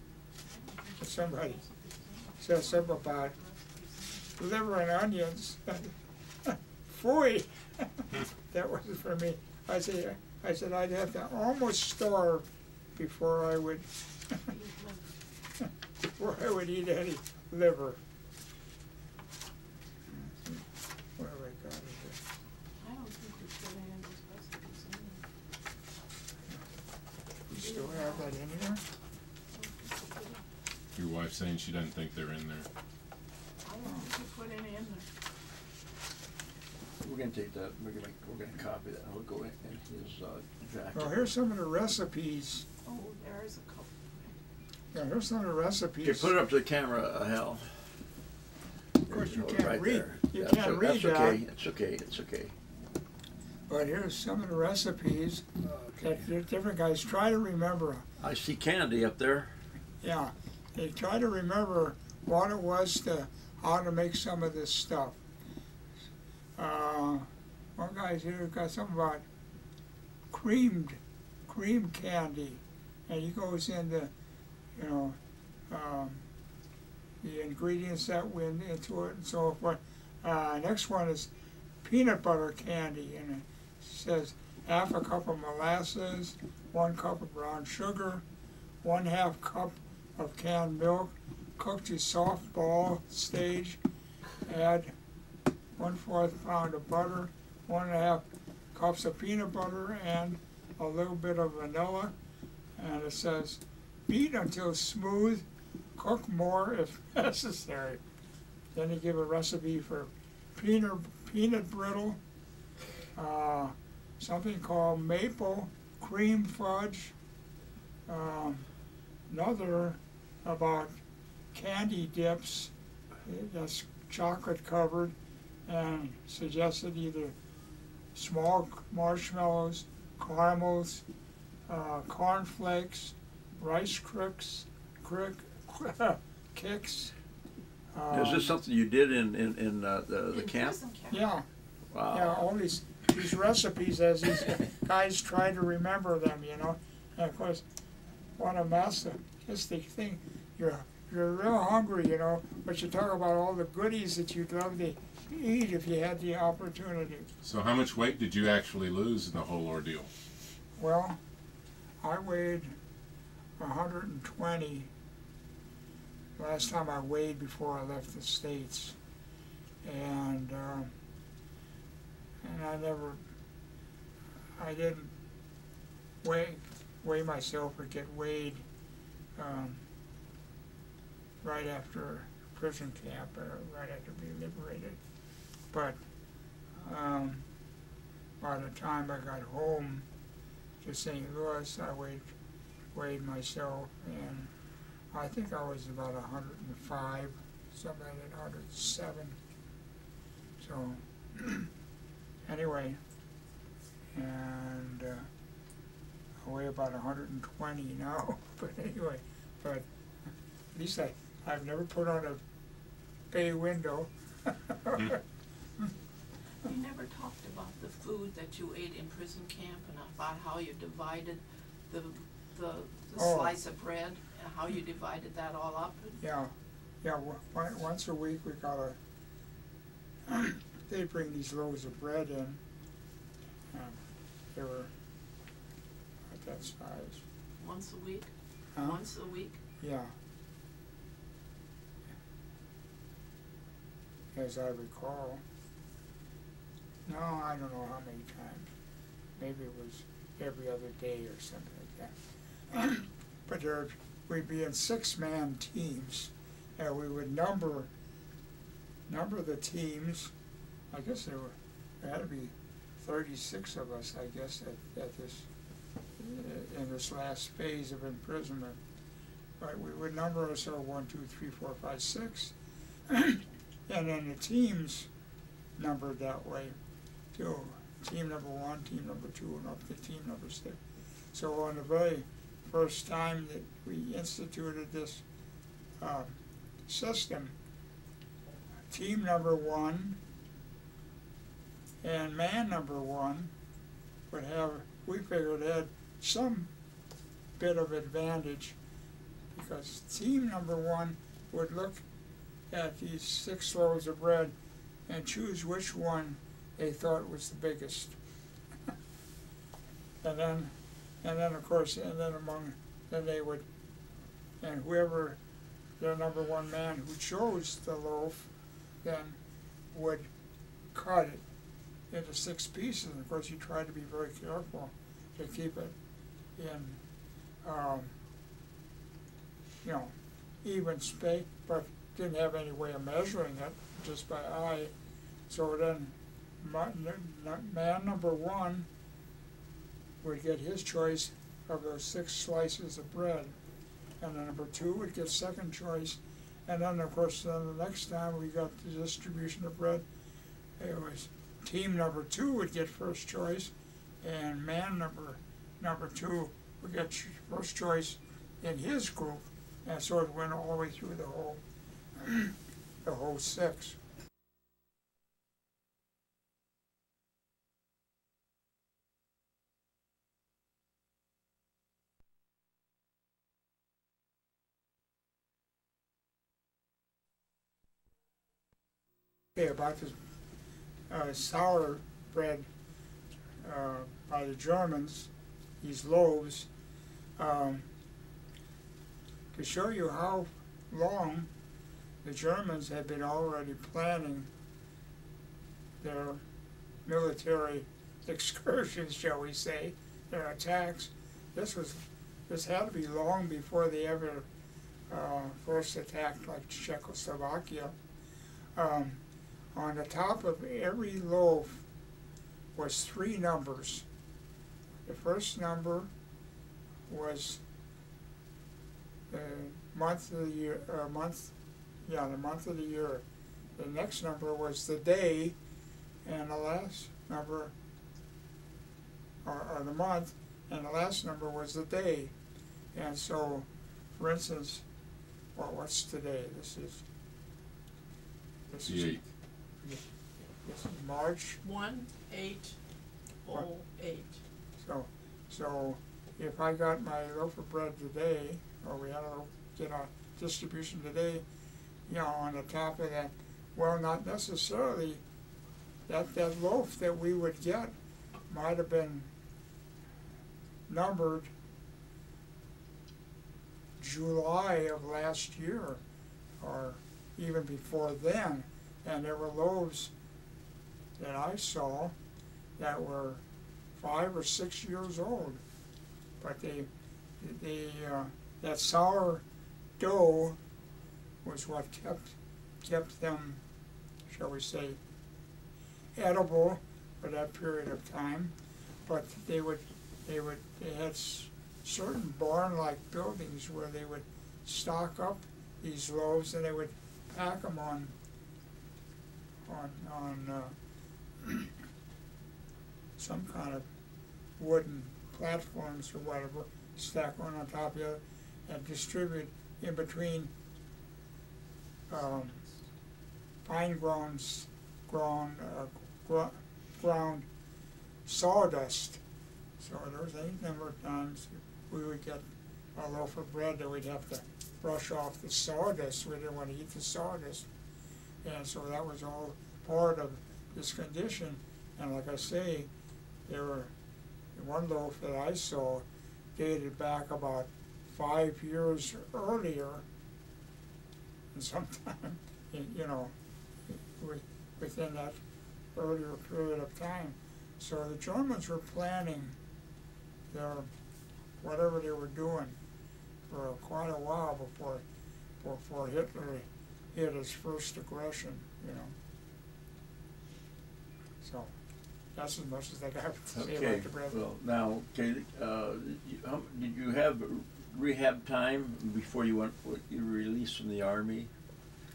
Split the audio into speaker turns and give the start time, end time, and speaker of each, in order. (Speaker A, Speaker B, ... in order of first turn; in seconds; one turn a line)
Speaker A: 0.5-4.3
Speaker B: 1.0-1.6
Speaker B: 2.4-3.3
Speaker B: 4.4-14.4
Speaker A: 14.5-15.1
Speaker B: 16.1-18.0
Speaker B: 20.1-22.2
Speaker A: 22.8-25.2
Speaker B: 27.5-28.8
Speaker A: 27.6-28.3
Speaker A: 29.5-30.4
Speaker C: 30.9-32.7
Speaker A: 33.6-35.1
Speaker D: 37.0-41.2
Speaker B: 40.9-42.6
Speaker A: 42.9-44.3
Speaker B: 44.9-46.3
Speaker D: 46.0-48.0
Speaker D: 49.0-52.5
Speaker B: 49.1-51.4
Speaker B: 53.7-58.0
Speaker D: 58.2-59.6
Speaker B: 60.0-65.2
Speaker B: 66.6-69.2
Speaker B: 70.3-74.1
Speaker B: 74.8-75.2
Speaker B: 75.7-76.2
Speaker B: 77.2-81.3
Speaker B: 81.8-88.2
Speaker B: 88.8-93.8
Speaker B: 94.5-94.9
Speaker B: 95.8-102.1
Speaker B: 102.8-105.4
Speaker B: 106.0-108.0
Speaker B: 108.7-112.2
Speaker B: 113.1-117.1
Speaker B: 118.1-118.7
Speaker B: 119.3-121.0
Speaker B: 121.5-122.7
Speaker B: 123.2-125.1
Speaker B: 125.7-127.3
Speaker B: 128.1-131.0
Speaker B: 131.7-137.1
Speaker B: 137.9-138.5
Speaker D: 138.1-140.8
Speaker A: 140.3-141.2
Speaker B: 141.1-141.4
Speaker D: 141.9-142.4
Speaker B: 142.1-147.6
Speaker B: 148.4-157.3
Speaker C: 157.4-160.1
Speaker B: 160.8-161.2
Speaker B: 162.0-162.7
Speaker B: 163.6-164.9
Speaker B: 166.4-168.9
Speaker B: 169.8-170.9
Speaker B: 172.4-173.2
Speaker B: 174.6-175.1
Speaker B: 176.2-178.6
Speaker B: 179.3-179.8
Speaker B: 181.4-185.0
Speaker B: 185.7-186.0
Speaker B: 186.8-187.4
Speaker B: 188.4-190.1
Speaker B: 190.8-192.3
Speaker B: 192.9-194.5
Speaker B: 195.1-199.4
Speaker B: 200.6-201.7
Speaker B: 202.5-203.0
Speaker B: 204.1-205.3
Speaker B: 206.4-209.9
Speaker B: 210.7-212.4
Speaker B: 213.3-215.2
Speaker A: 216.6-226.2
Speaker B: 223.2-223.6
Speaker B: 226.2-229.0
Speaker B: 230.3-232.6
Speaker B: 233.7-234.0
Speaker B: 234.5-234.9
Speaker B: 236.3-237.2
Speaker A: 237.6-239.6
Speaker B: 239.8-240.1
Speaker B: 244.3-245.4
Speaker B: 247.0-248.7
Speaker B: 249.4-252.1
Speaker B: 252.7-257.9
Speaker B: 259.1-260.3
Speaker B: 260.9-265.5
Speaker B: 266.2-268.8
Speaker B: 269.6-272.5
Speaker B: 273.1-275.1
Speaker B: 275.8-276.7
Speaker B: 277.3-280.8
Speaker B: 281.3-285.2
Speaker B: 286.0-287.5
Speaker B: 288.9-290.2
Speaker B: 292.0-293.5
Speaker B: 294.3-296.7
Speaker B: 297.6-298.8
Speaker B: 299.5-302.0
Speaker B: 302.7-304.5
Speaker B: 305.1-308.2
Speaker B: 310.2-313.6
Speaker B: 314.6-315.4
Speaker B: 316.0-318.5
Speaker B: 319.0-319.4
Speaker B: 319.9-320.3
Speaker B: 320.9-321.4
Speaker B: 322.1-325.9
Speaker B: 326.6-327.0
Speaker B: 327.6-328.1
Speaker B: 329.8-334.9
Speaker B: 335.5-338.9
Speaker B: 340.2-343.5
Speaker B: 344.2-350.0
Speaker B: 350.8-361.6
Speaker B: 362.2-364.0
Speaker B: 379.5-380.2
Speaker B: 381.1-382.7
Speaker B: 383.6-385.3
Speaker B: 385.8-386.7
Speaker B: 387.4-387.9
Speaker B: 389.5-391.5
Speaker B: 392.2-394.5
Speaker B: 396.0-396.4
Speaker B: 397.0-404.5
Speaker B: 405.1-407.9
Speaker B: 408.7-409.2
Speaker B: 409.7-411.8
Speaker B: 412.7-414.0
Speaker B: 415.1-416.1
Speaker B: 417.1-417.6
Speaker B: 419.3-421.5
Speaker B: 422.0-423.2
Speaker B: 423.8-425.5
Speaker B: 426.2-427.7
Speaker B: 429.4-432.3
Speaker B: 432.9-434.8
Speaker B: 435.5-437.0
Speaker B: 438.7-439.2
Speaker C: 438.9-439.2
Speaker B: 440.6-441.6
Speaker A: 441.6-442.8
Speaker A: 443.4-444.4
Speaker B: 444.8-451.4
Speaker B: 452.1-455.2
Speaker B: 456.1-457.9
Speaker B: 458.5-459.3
Speaker B: 460.9-461.5
Speaker B: 464.0-466.0
Speaker B: 466.6-470.1
Speaker B: 471.2-472.1
Speaker B: 472.8-473.4
Speaker B: 473.9-475.6
Speaker B: 476.4-476.9
Speaker B: 477.4-479.4
Speaker B: 480.0-480.6
Speaker B: 481.4-483.6
Speaker B: 484.3-485.0
Speaker B: 486.1-488.5
Speaker B: 489.1-498.1
Speaker B: 499.7-500.8
Speaker B: 501.4-501.7
Speaker B: 503.2-503.9
Speaker B: 504.6-510.5
Speaker B: 512.1-512.6
Speaker B: 513.6-517.5
Speaker B: 518.2-519.2
Speaker B: 519.8-522.4
Speaker B: 522.9-527.7
Speaker B: 528.4-532.9
Speaker B: 533.5-533.9
Speaker B: 534.5-536.0
Speaker B: 536.5-540.0
Speaker B: 541.5-543.3
Speaker B: 543.9-545.4
Speaker B: 545.9-549.5
Speaker B: 550.5-550.9
Speaker B: 551.6-552.8
Speaker B: 553.5-555.0
Speaker B: 555.6-559.1
Speaker B: 561.4-561.7
Speaker B: 562.4-564.4
Speaker D: 563.5-571.5